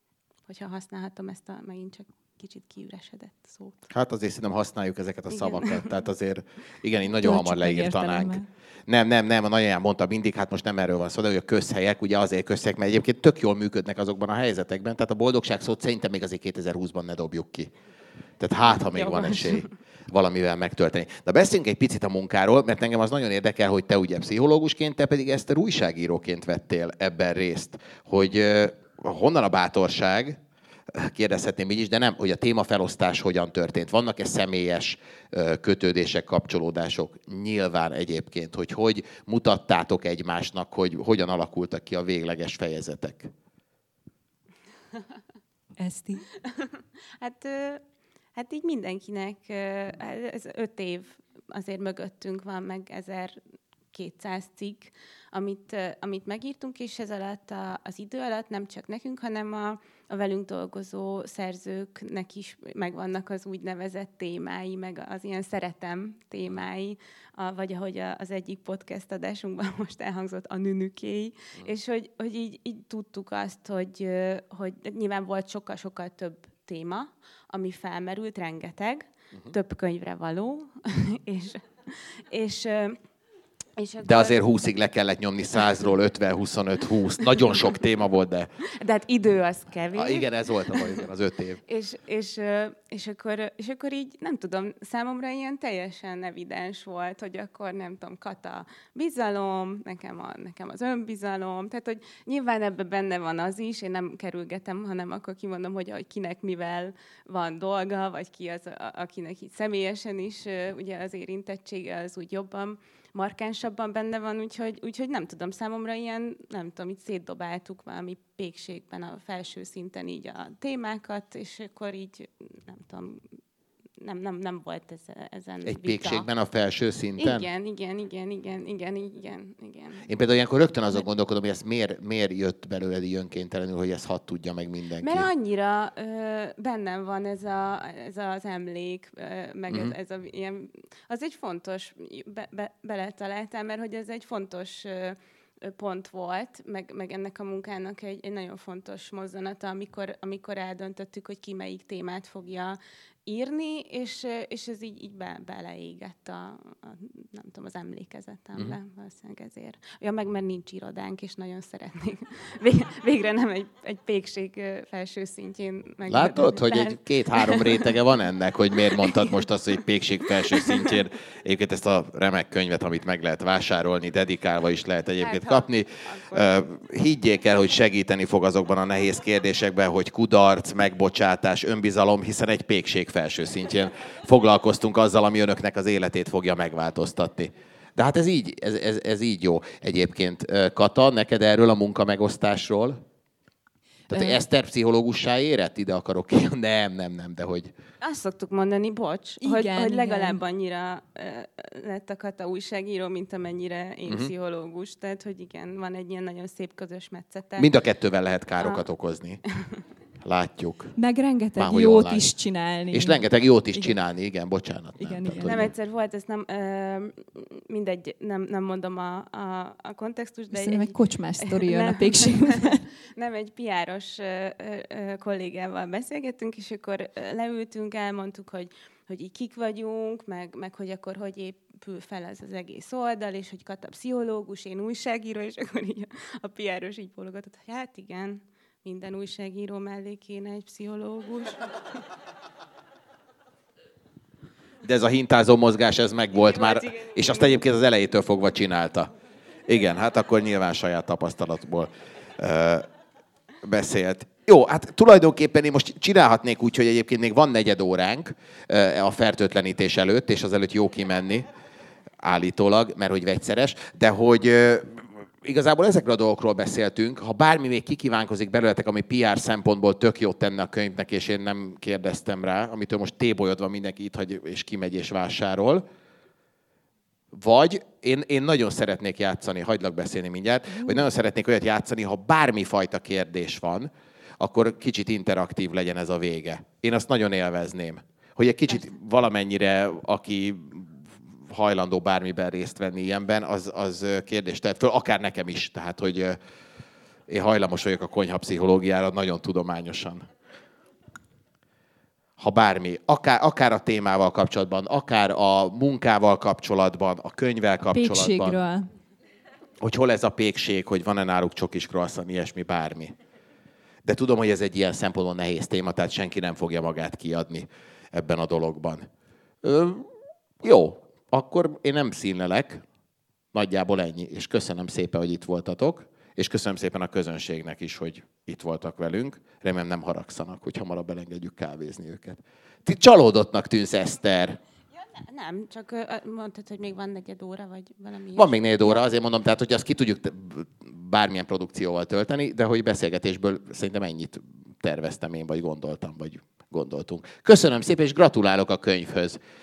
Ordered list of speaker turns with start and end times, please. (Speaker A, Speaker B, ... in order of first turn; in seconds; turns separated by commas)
Speaker A: 0.5-3.9, Speaker B: 3.9-17.7, Speaker A: 5.4-5.8, Speaker C: 7.2-8.5, Speaker B: 18.4-30.4, Speaker A: 19.0-19.6, Speaker B: 30.9-43.3, Speaker C: 45.8-46.3, Speaker A: 46.4-47.8, Speaker A: 48.4-53.4, Speaker A: 53.9-83.0, Speaker A: 83.8-84.4, Speaker B: 84.0-88.5, Speaker A: 88.7-91.1, Speaker B: 89.9-91.6, Speaker A: 91.7-123.3, Speaker A: 124.0-126.3, Speaker B: 125.7-127.5, Speaker A: 127.2-130.1, Speaker B: 130.1-135.3, Speaker A: 135.0-168.0, Speaker B: 139.7-139.9, Speaker B: 166.1-193.0, Speaker A: 168.8-169.4, Speaker A: 170.3-171.0, Speaker A: 175.2-176.6, Speaker B: 194.1-197.7, Speaker C: 194.1-194.4, Speaker A: 198.0-207.7, Speaker C: 199.4-200.4, Speaker B: 207.6-209.4, Speaker B: 210.2-210.9, Speaker C: 211.0-213.2, Speaker B: 211.6-212.3, Speaker B: 212.9-215.7, Speaker C: 215.0-215.6, Speaker A: 215.4-241.7, Speaker C: 220.5-222.8, Speaker B: 244.8-249.1, Speaker A: 246.4-247.6, Speaker B: 249.7-252.9, Speaker B: 253.6-261.5, Speaker B: 262.2-275.8, Speaker B: 277.3-296.4, Speaker B: 297.3-300.3, Speaker B: 302.4-308.6, Speaker C: 307.9-308.9, Speaker B: 309.8-313.1, Speaker B: 314.0-319.1, Speaker B: 319.6-320.1, Speaker B: 320.6-322.8, Speaker B: 323.5-334.6, Speaker A: 335.1-339.1, Speaker B: 338.4-349.4